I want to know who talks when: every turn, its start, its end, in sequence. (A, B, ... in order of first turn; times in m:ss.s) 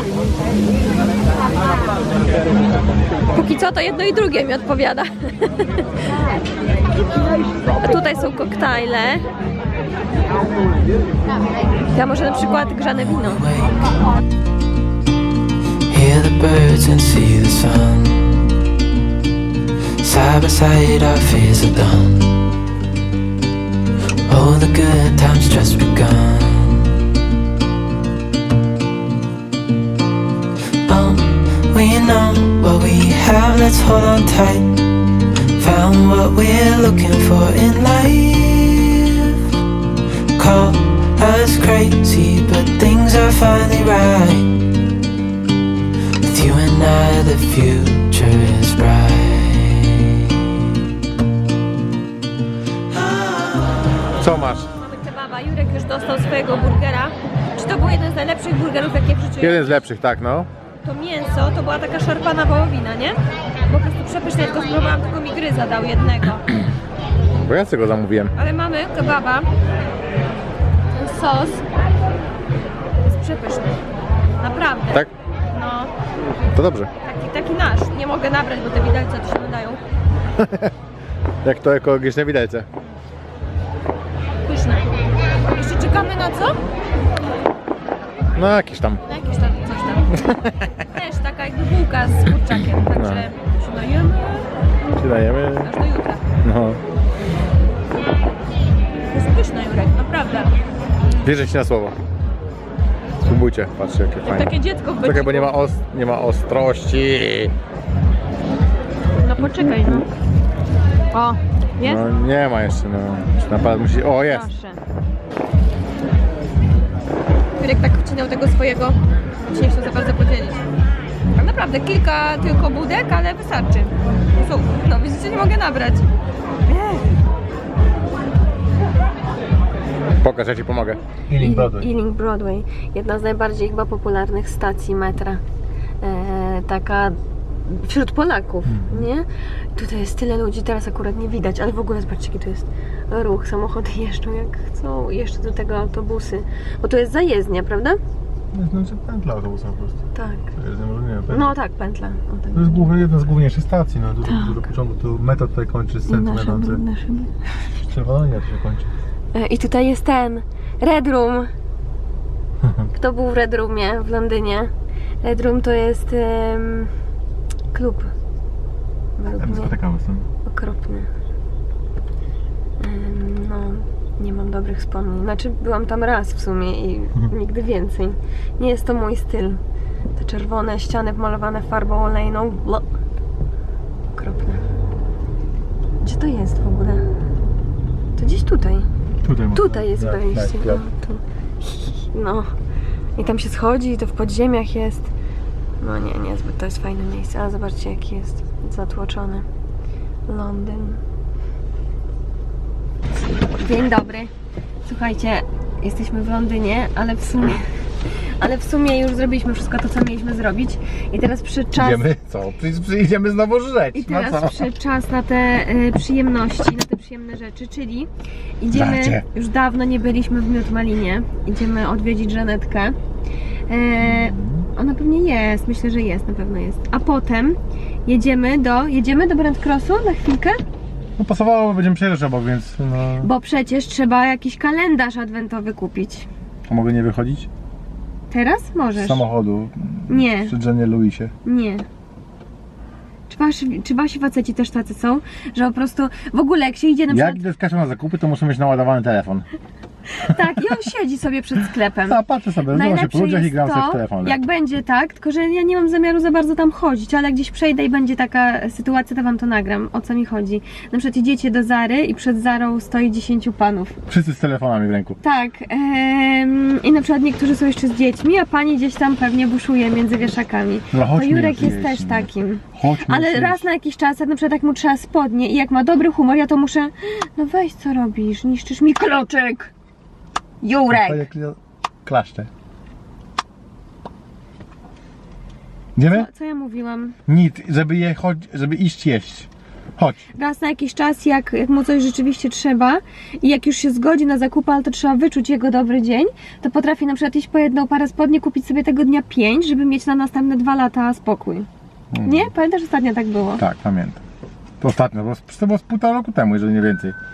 0:03.3-0:06.1 A
0:07.8-0:09.2 A
0:11.9-0:13.4 A
0:13.2-0:13.9 B
0:15.9-0:18.4 B
0:20.0-0:22.3 B
0:24.3-0:27.0 B
0:30.8-0:34.7 B
0:35.6-0:39.4 B
0:40.3-0:44.5 B
0:46.2-0:50.4 B
0:52.9-0:53.8 B
0:54.2-0:54.7 C
0:54.8-0:59.8 A
0:59.4-1:00.5 C
1:00.8-1:06.6 A
1:07.4-1:08.3 C
1:08.4-1:09.5 A
1:10.9-1:11.6 A
1:13.0-1:13.8 A
1:14.4-1:15.9 A
1:16.5-1:16.9 C
1:17.0-1:19.8 A
1:20.4-1:20.7 C
1:21.4-1:22.7 C
1:24.4-1:24.9 A
1:25.5-1:26.6 A
1:28.3-1:29.0 C
1:29.1-1:30.2 A
1:30.1-1:30.7 C
1:30.8-1:34.3 A
1:32.9-1:33.2 C
1:34.9-1:35.7 C
1:35.6-1:36.2 A
1:36.4-1:36.8 C
1:39.1-1:40.5 A
1:41.2-1:42.0 C
1:43.2-1:47.5 C
1:44.2-1:45.5 A
1:49.2-1:50.1 A
1:49.4-1:50.0 C
1:51.1-1:52.0 A
1:51.8-1:54.5 C
1:54.2-1:54.8 A
1:57.6-1:59.0 A
1:59.5-2:00.6 A
2:01.4-2:06.1 A
2:06.7-2:07.1 A
2:10.2-2:11.9 C
2:11.4-2:15.4 A
2:16.0-2:28.0 A
2:18.6-2:19.1 C
2:28.5-2:30.0 C
2:30.1-2:30.5 A
2:30.5-2:31.5 C
2:31.3-2:32.9 A
2:32.5-2:36.8 C
2:34.2-2:34.6 A
2:36.1-2:37.4 A
2:37.8-2:38.9 C
2:39.3-2:41.5 A
2:42.6-2:42.9 C
2:42.9-2:44.7 A
2:45.2-2:46.9 A
2:47.7-2:48.1 A
2:49.2-2:49.7 A
2:49.4-2:50.2 C
2:50.4-2:51.1 A
2:52.8-2:59.6 A
3:00.2-3:02.9 A
3:04.1-3:04.7 A
3:06.0-3:07.0 A
3:08.2-3:08.9 A
3:09.2-3:10.8 C
3:09.5-3:12.5 A
3:13.2-3:15.1 A
3:15.8-3:19.4 A
3:20.3-3:21.0 A
3:23.4-3:24.3 A
3:24.8-3:27.6 A
3:28.4-3:32.0 A
3:31.7-3:34.7 C
3:33.9-3:38.1 A
3:38.6-3:43.0 A
3:38.7-3:39.2 C
3:43.7-3:50.6 A
3:44.0-3:44.7 C
3:51.2-3:53.3 C
3:53.2-3:56.3 A
3:56.6-3:57.5 C
3:58.3-3:59.2 A
3:59.0-4:01.3 C
4:00.1-4:00.5 A
4:01.4-4:01.8 A
4:03.3-4:07.4 A
4:07.1-4:09.4 C
4:10.1-4:24.0 A
4:12.1-4:14.4 C
4:24.1-4:25.2 C
4:25.2-4:39.7 A
4:30.9-4:33.6 C
4:40.6-4:41.2 A
4:40.9-4:42.5 C
4:46.0-4:46.3 C
4:46.1-4:47.2 A
4:47.3-4:50.2 C
4:50.3-5:01.7 A
5:02.1-5:02.5 C
5:02.2-5:03.6 A
5:03.6-5:04.2 C
5:04.8-5:07.2 C